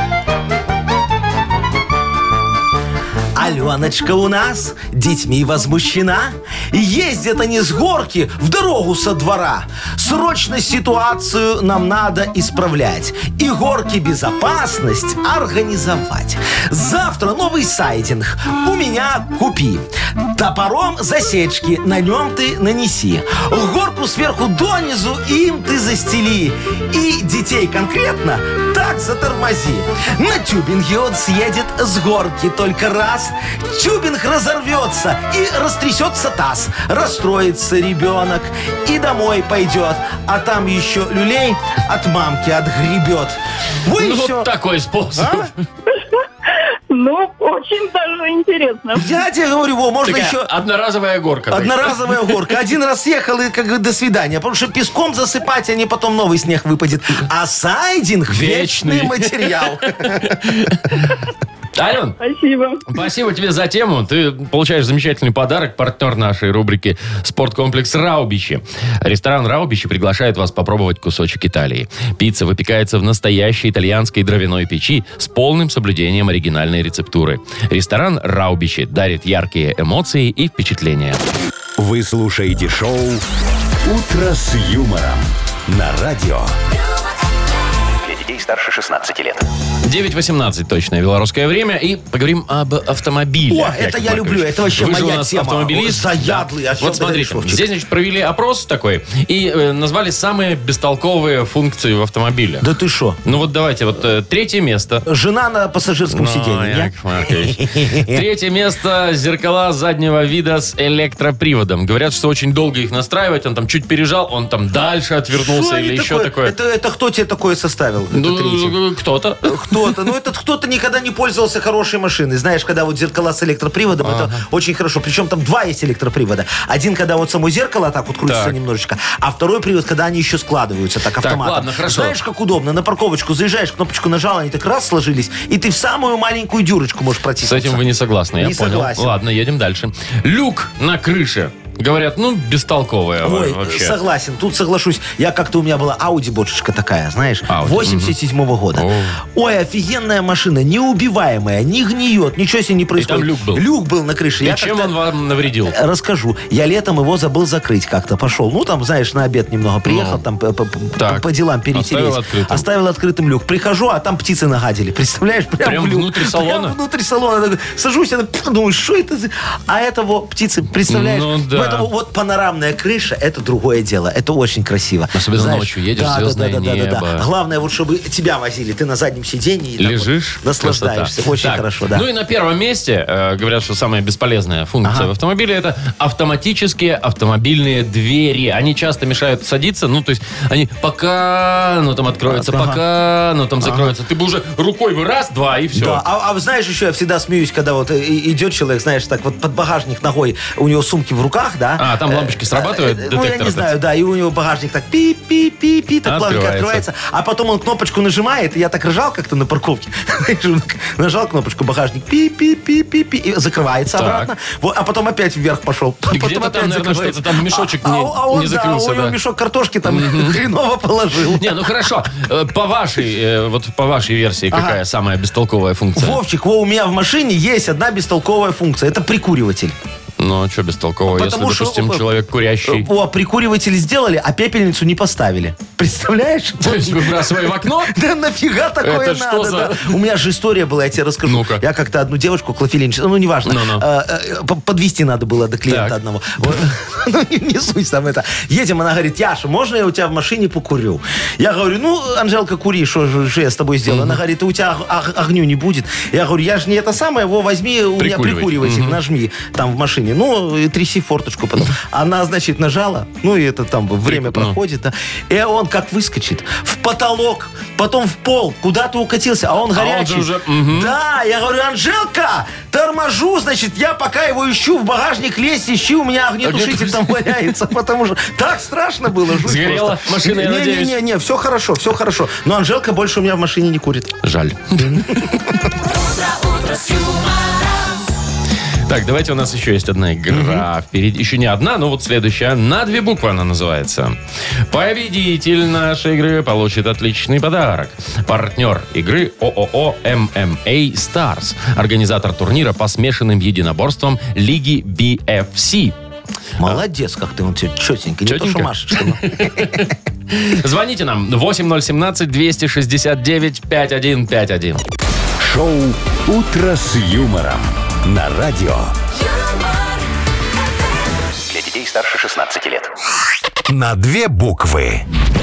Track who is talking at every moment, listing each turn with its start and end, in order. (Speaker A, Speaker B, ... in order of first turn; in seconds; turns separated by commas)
Speaker A: 3.3-44.5, Speaker B: 43.9-45.5, Speaker A: 45.1-45.5, Speaker C: 45.9-49.1, Speaker A: 48.9-50.5, Speaker B: 50.0-52.5, Speaker A: 51.5-60.4, Speaker B: 58.3-61.2, Speaker B: 61.7-62.2, Speaker C: 62.2-62.9, Speaker B: 62.9-81.2, Speaker D: 81.8-83.2, Speaker D: 83.8-86.5, Speaker E: 88.0-89.5, Speaker B: 89.8-102.7, Speaker A: 93.5-97.7, Speaker A: 102.6-103.2, Speaker B: 103.2-105.1, Speaker A: 105.0-108.2, Speaker B: 106.1-116.5, Speaker A: 115.3-118.8, Speaker B: 118.1-120.0, Speaker A: 119.4-137.8, Speaker B: 124.0-124.4, Speaker B: 128.3-128.6, Speaker B: 131.2-132.2, Speaker B: 137.4-144.0, Speaker A: 138.4-139.2, Speaker A: 143.2-154.9, Speaker B: 147.5-148.1, Speaker B: 148.7-149.2, Speaker B: 153.0-153.6, Speaker B: 154.4-155.7, Speaker A: 155.6-182.1, Speaker B: 159.8-160.2, Speaker B: 161.0-162.6, Speaker B: 165.6-166.8, Speaker B: 170.9-171.9, Speaker B: 175.1-177.3, Speaker B: 179.8-196.0, Speaker A: 184.8-185.1, Speaker A: 192.3-192.8, Speaker A: 193.6-193.9, Speaker A: 195.7-221.7, Speaker B: 201.8-203.7, Speaker B: 206.0-206.8, Speaker B: 213.9-214.3, Speaker B: 216.1-219.2, Speaker B: 219.8-220.4, Speaker B: 221.3-226.2, Speaker A: 224.5-224.8, Speaker A: 225.9-229.7, Speaker B: 230.2-232.9, Speaker A: 231.1-232.0, Speaker A: 232.6-284.1, Speaker B: 236.6-238.0, Speaker B: 238.8-240.0, Speaker B: 241.2-241.6, Speaker B: 243.4-243.8, Speaker B: 245.7-246.0, Speaker B: 253.9-254.2, Speaker B: 258.0-259.0, Speaker B: 264.1-264.6, Speaker B: 269.7-270.9, Speaker B: 276.4-277.3, Speaker B: 279.4-280.9, Speaker B: 284.2-285.4, Speaker A: 284.7-285.6, Speaker B: 288.9-294.2, Speaker A: 290.3-290.7, Speaker B: 294.7-305.9, Speaker A: 306.6-309.8, Speaker B: 308.2-314.8, Speaker D: 315.4-318.9, Speaker E: 321.5-322.9, Speaker D: 323.7-325.1